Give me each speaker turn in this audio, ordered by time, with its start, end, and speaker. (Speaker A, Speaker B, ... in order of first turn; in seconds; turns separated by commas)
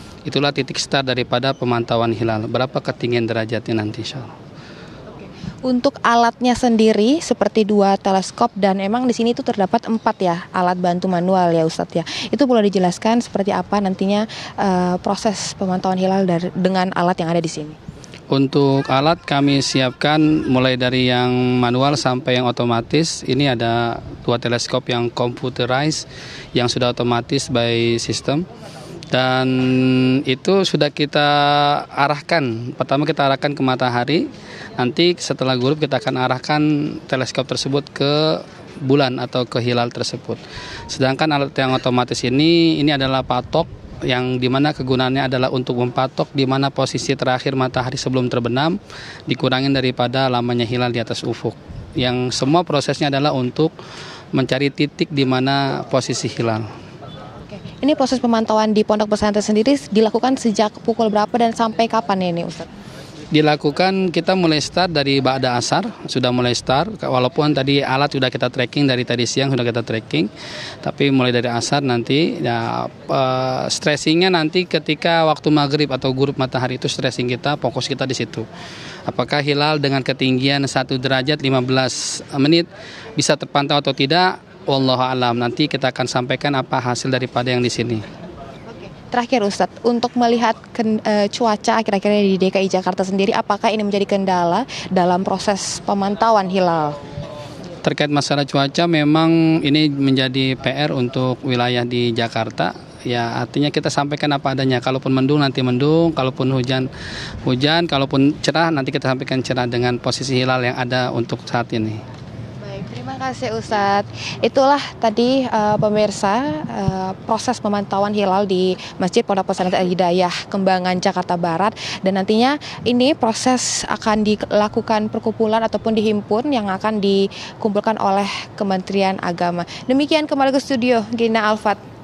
Speaker A: 0.2-4.3, Speaker B: 5.1-17.8, Speaker A: 18.3-28.4, Speaker A: 29.1-34.2, Speaker A: 34.8-53.7, Speaker A: 54.3-56.6, Speaker B: 57.5-62.7, Speaker A: 63.3-70.3, Speaker A: 70.8-78.5, Speaker A: 79.1-88.0, Speaker B: 88.7-97.0, Speaker A: 97.8-106.9, Speaker A: 107.5-112.0, Speaker B: 112.6-131.8